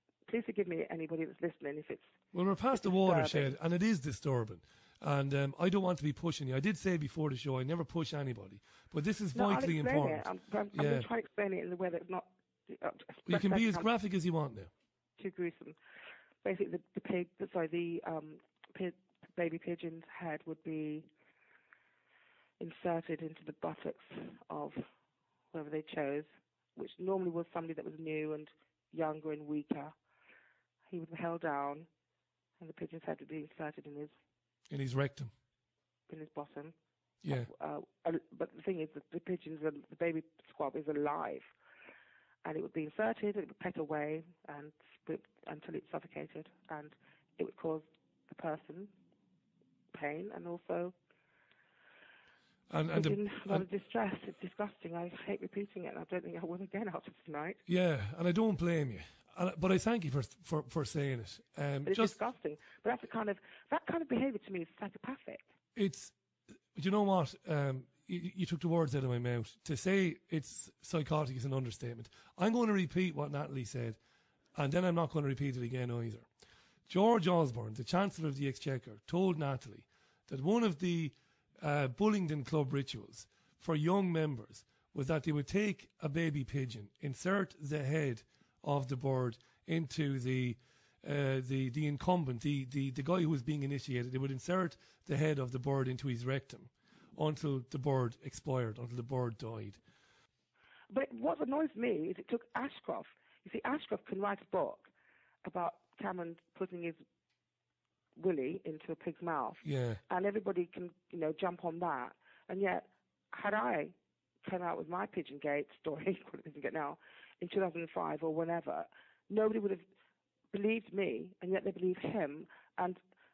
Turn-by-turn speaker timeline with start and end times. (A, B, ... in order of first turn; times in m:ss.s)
0:00.3-0:02.1 A
0:02.3-0:11.1 B
0:02.7-0:03.5 A
0:09.3-0:13.9 A
0:13.2-0:14.7 B
0:15.2-0:15.8 A
0:16.4-0:21.1 A
0:22.6-0:24.8 A
0:25.5-0:29.9 A
0:30.9-0:31.9 A
0:32.6-0:34.1 A
0:34.7-0:35.3 B
0:36.1-0:36.7 A
0:37.2-0:37.5 B
0:37.3-0:41.5 A
0:42.4-0:48.9 A
0:49.9-0:50.9 A
0:52.7-0:53.6 B
0:52.9-0:57.6 A
0:57.7-1:02.2 B
1:01.8-1:05.5 A
1:05.8-1:06.1 B
1:06.7-1:14.0 B
1:14.5-1:16.2 B
1:16.9-1:39.8 B
1:40.9-1:44.9 A
1:45.4-1:47.0 A
1:48.2-1:59.8 A
1:49.6-1:50.0 B
2:00.5-2:03.0 A